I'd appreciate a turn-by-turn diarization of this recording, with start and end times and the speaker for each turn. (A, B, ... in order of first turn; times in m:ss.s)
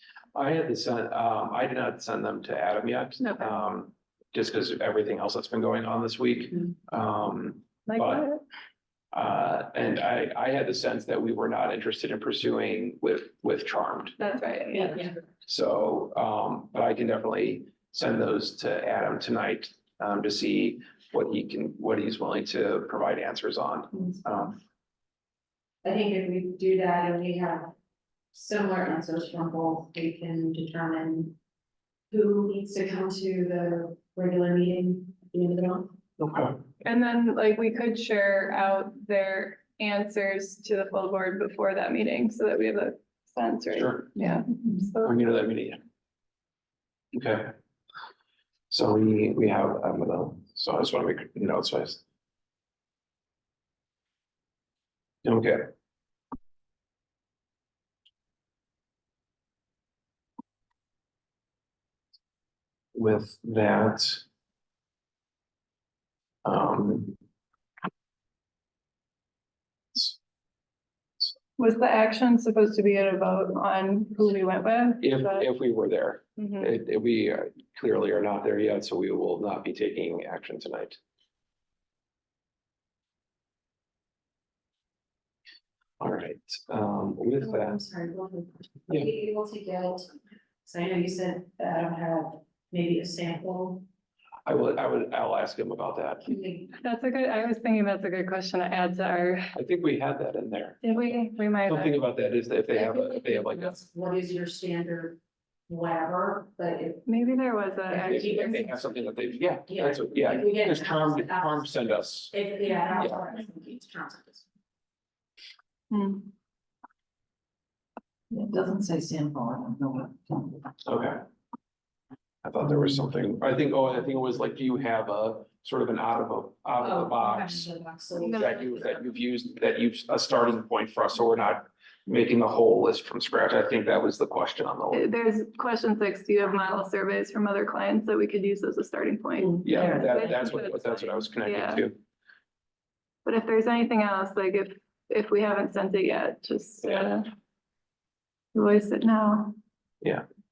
0:00.3-0:08.3 A
0:03.2-0:03.6 B
0:07.9-0:08.4 B
0:09.1-0:14.2 A
0:14.2-0:15.1 B
0:15.4-0:24.6 A
0:25.8-0:27.7 C
0:28.3-0:31.4 C
0:32.1-0:35.9 C
0:36.2-0:36.6 A
0:36.8-0:45.1 B
0:43.7-0:44.1 A
0:45.0-0:45.8 A
0:47.1-0:47.5 A
0:48.7-0:52.0 A
0:55.2-0:55.7 A
1:02.9-1:04.2 A
1:06.4-1:07.1 A
1:11.6-1:15.5 B
1:15.0-1:21.0 A
1:16.4-1:16.8 B
1:26.0-1:27.8 A
1:27.4-1:30.1 C
1:30.6-1:33.8 C
1:34.4-1:36.3 A
1:36.2-1:36.7 C
1:36.8-1:39.5 B
1:39.5-1:40.8 A
1:40.8-1:42.0 B
1:41.6-1:43.8 A
1:42.7-1:47.0 C
1:47.0-1:48.8 B
1:47.9-1:48.8 C
1:48.1-1:52.3 A
1:49.7-1:54.4 C
1:55.9-1:56.3 B
1:58.3-2:00.6 D
2:00.8-2:01.2 A
2:02.4-2:07.6 A
2:06.8-2:09.0 C
2:08.2-2:08.6 B
2:08.3-2:15.1 A
2:14.9-2:21.9 B
2:19.6-2:22.0 A
2:19.7-2:20.3 D
2:23.2-2:27.3 B
2:26.8-2:27.1 A
2:28.5-2:29.5 B